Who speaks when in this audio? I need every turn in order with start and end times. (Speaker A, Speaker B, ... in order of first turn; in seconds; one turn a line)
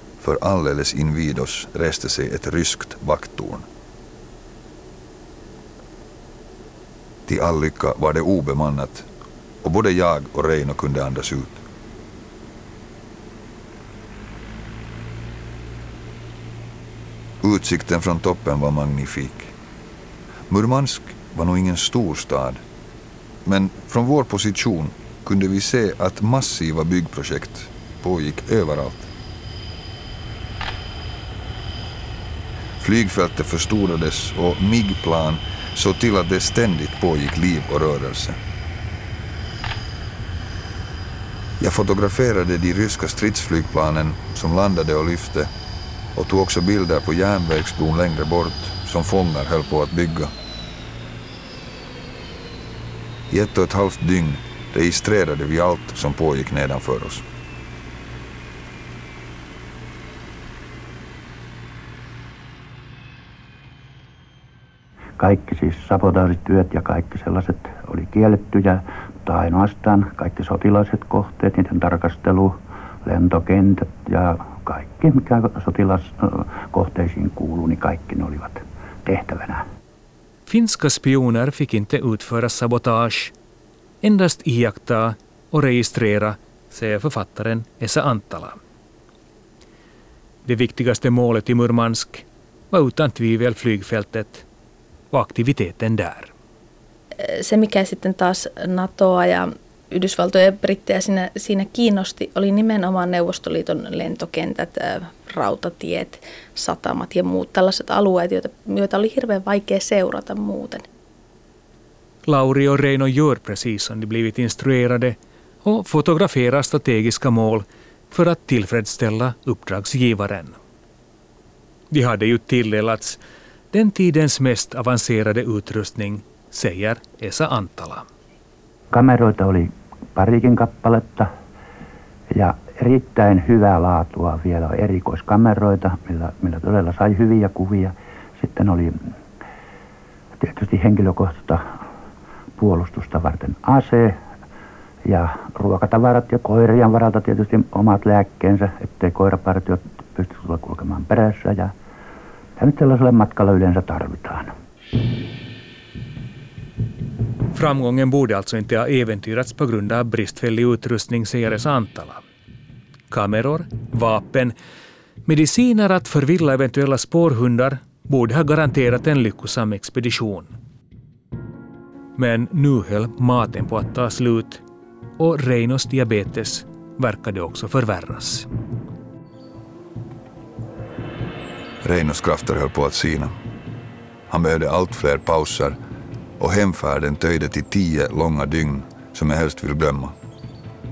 Speaker A: 0.2-3.6
Speaker A: 7.3-9.1
Speaker A: 9.6-11.6
Speaker A: 17.4-19.5
Speaker A: 20.5-22.6
Speaker A: 23.4-29.1
Speaker A: 32.8-38.4
Speaker A: 41.6-45.5
Speaker A: 46.1-50.3
Speaker A: 53.3-57.2
Speaker B: 65.2-79.6
Speaker C: 80.5-83.3
Speaker C: 84.0-88.6
Speaker C: 90.5-94.5
Speaker C: 95.1-96.3
Speaker D: 97.2-110.8
Speaker C: 112.2-120.6
Speaker C: 121.9-123.2
Speaker C: 123.7-128.1
Speaker B: 128.9-131.3
Speaker B: 132.3-139.1
Speaker B: 140.4-141.8
Speaker B: 142.6-144.2
Speaker B: 145.1-151.7
Speaker B: 152.6-154.5
Speaker C: 157.5-162.2
Speaker C: 163.1-164.6
Speaker C: 165.3-170.5
Speaker C: 172.2-174.6
Speaker C: 175.2-178.5
Speaker A: 181.8-183.3
Speaker A: 184.3-185.8
Speaker A: 186.4-190.1